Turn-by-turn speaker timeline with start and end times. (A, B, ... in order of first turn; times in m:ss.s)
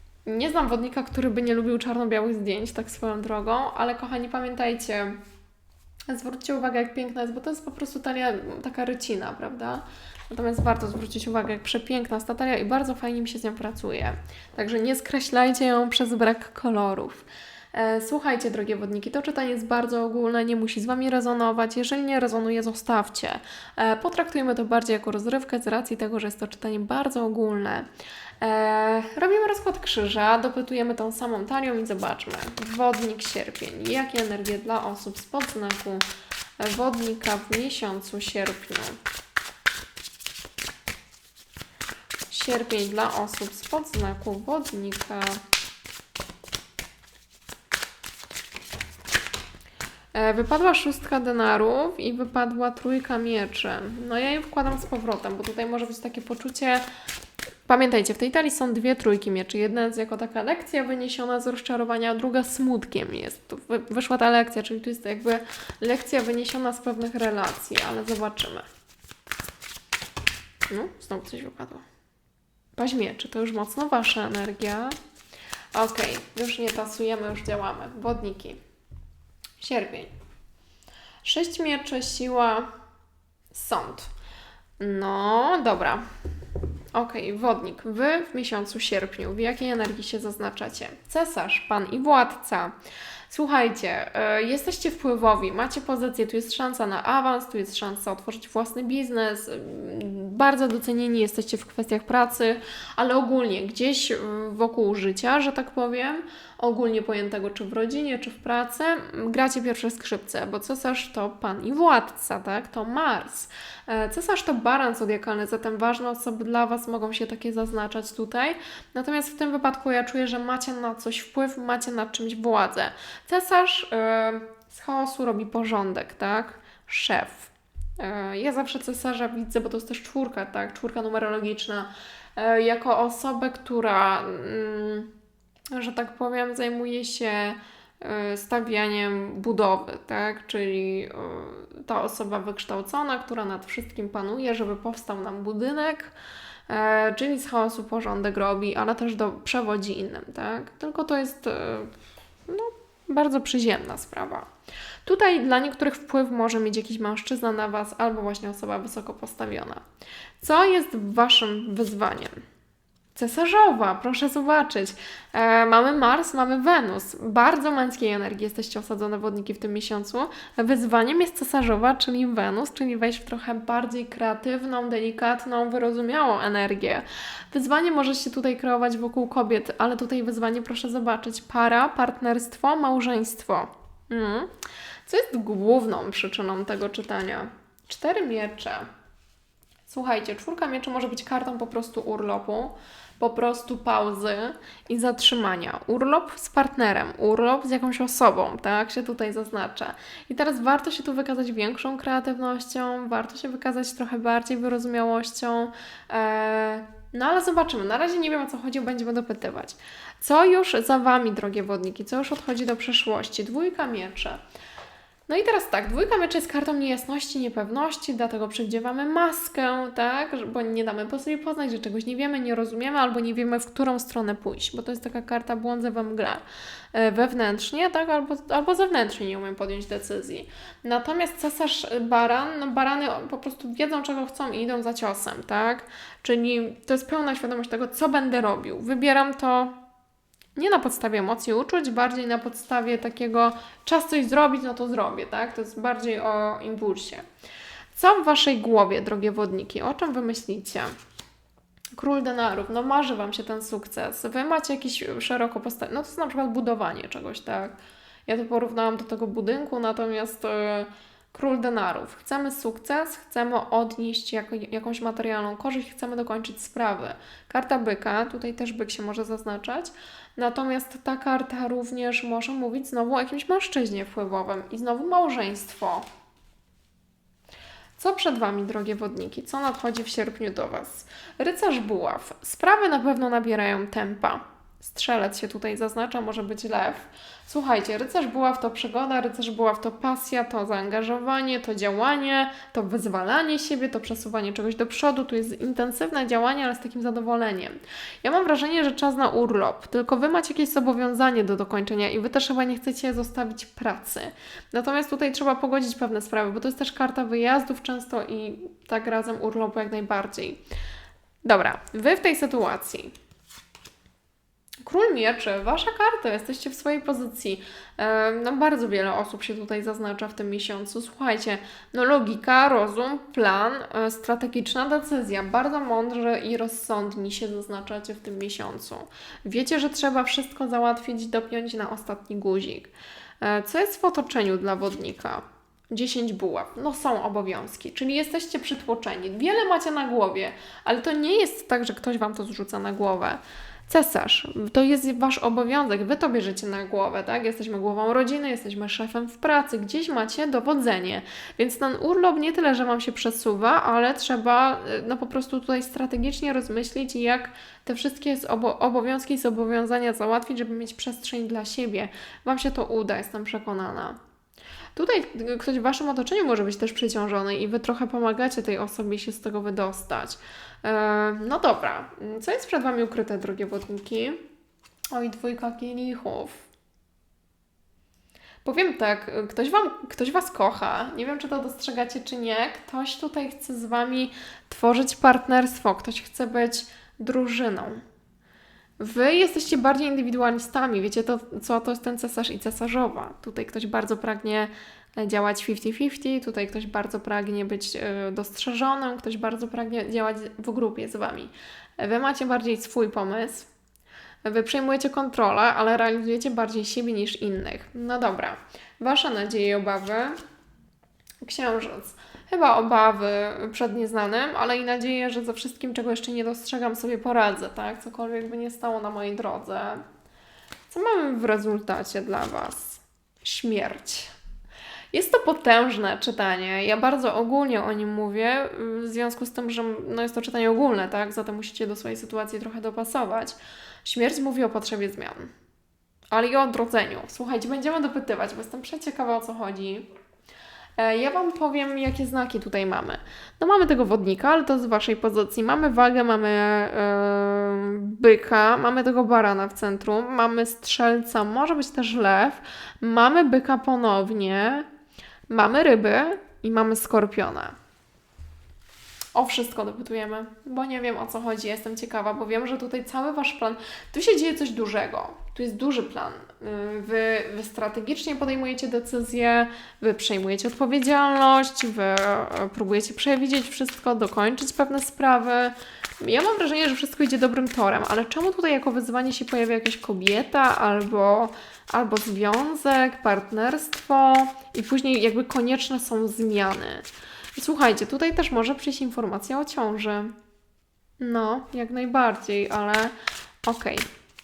0:00.3-0:05.2 A
0:06.1-0:27.9 A
0:28.4-0:36.0 A
0:36.6-0:39.0 A
0:42.3-0:45.4 A
0:50.1-0:56.8 A
0:57.7-1:08.7 A
1:10.7-1:11.8 A
1:12.8-1:15.0 A
1:15.7-1:18.6 A
1:19.6-1:20.1 A
1:21.2-1:22.7 A
1:23.5-1:24.1 A
1:24.8-1:26.0 A
1:26.9-1:32.8 A
1:33.3-2:15.1 A
2:15.7-2:26.1 A
2:26.7-2:31.9 A
2:32.5-2:34.5 A
2:35.0-2:39.8 A
2:40.4-2:42.4 A
2:43.2-3:04.5 A
3:05.1-3:08.9 A
3:09.9-3:34.4 A
3:35.3-3:59.8 A
4:00.6-4:07.2 A
4:07.9-4:10.9 A
4:12.0-4:36.0 A
4:38.0-5:10.6 A
5:11.4-5:13.1 A
5:14.8-6:04.2 A
6:05.0-6:14.4 A
6:15.1-6:16.7 A
6:18.6-6:28.0 A
6:29.0-6:43.7 A
6:44.4-6:50.4 A
6:51.4-7:00.0 A
7:00.9-7:04.3 A
7:05.1-7:15.5 A
7:16.3-7:20.1 A
7:21.0-7:34.9 A
7:35.5-7:37.8 A
7:39.4-8:10.4 A
8:11.2-8:13.1 A
8:13.6-8:14.1 A